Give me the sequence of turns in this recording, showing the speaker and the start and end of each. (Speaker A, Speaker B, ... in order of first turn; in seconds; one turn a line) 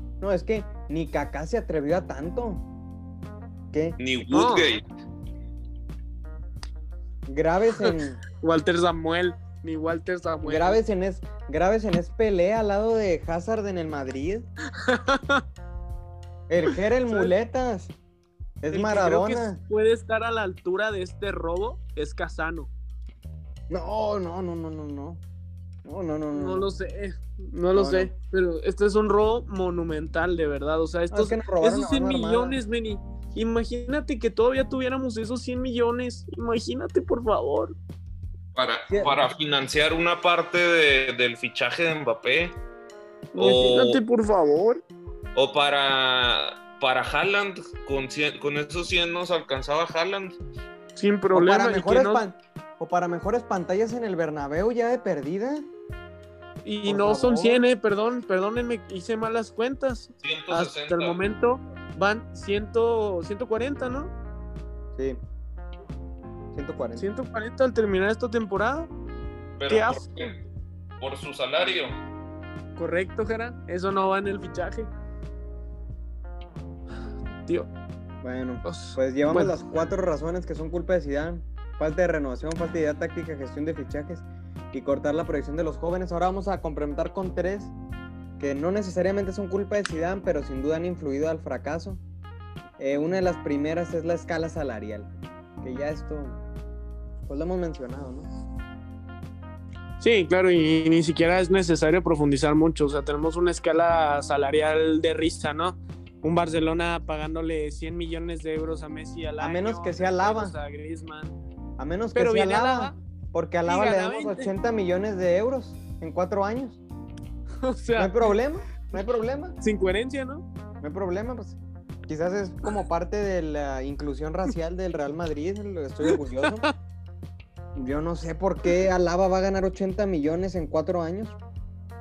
Speaker A: 0.2-2.6
Speaker A: 3.7-4.0
Speaker B: 4.0-4.8
Speaker C: 4.3-4.7
Speaker A: 7.3-8.2
Speaker C: 7.8-10.8
Speaker A: 10.4-14.4
Speaker C: 14.8-15.4
Speaker A: 16.5-17.9
Speaker C: 17.1-17.3
Speaker A: 18.6-19.6
Speaker C: 18.7-22.7
Speaker A: 23.7-25.2
Speaker A: 25.8-26.7
Speaker C: 26.3-37.8
Speaker A: 27.7-28.1
Speaker A: 31.1-32.6
Speaker B: 38.5-42.6
Speaker A: 38.9-39.2
Speaker C: 43.3-44.8
Speaker B: 43.4-44.0
Speaker B: 45.3-50.4
Speaker C: 51.0-52.2
Speaker A: 51.3-55.7
Speaker C: 56.6-64.1
Speaker A: 56.8-57.6
Speaker B: 60.2-61.2
Speaker A: 65.0-65.2
Speaker A: 66.5-67.0
Speaker C: 67.0-68.9
Speaker B: 69.6-70.4
Speaker C: 69.7-70.3
Speaker B: 71.0-72.0
Speaker C: 72.8-74.9
Speaker A: 78.2-87.7
Speaker C: 78.6-79.6
Speaker A: 88.4-92.0
Speaker A: 92.8-95.1
Speaker A: 95.6-96.4
Speaker A: 97.3-98.3
Speaker C: 100.0-111.3
Speaker A: 109.4-110.5
Speaker A: 111.8-116.8
Speaker C: 112.1-112.9
Speaker C: 113.7-114.5
Speaker C: 117.6-118.3
Speaker A: 118.0-119.5
Speaker C: 119.6-120.4
Speaker A: 120.8-126.7
Speaker C: 126.1-126.7
Speaker A: 127.7-131.4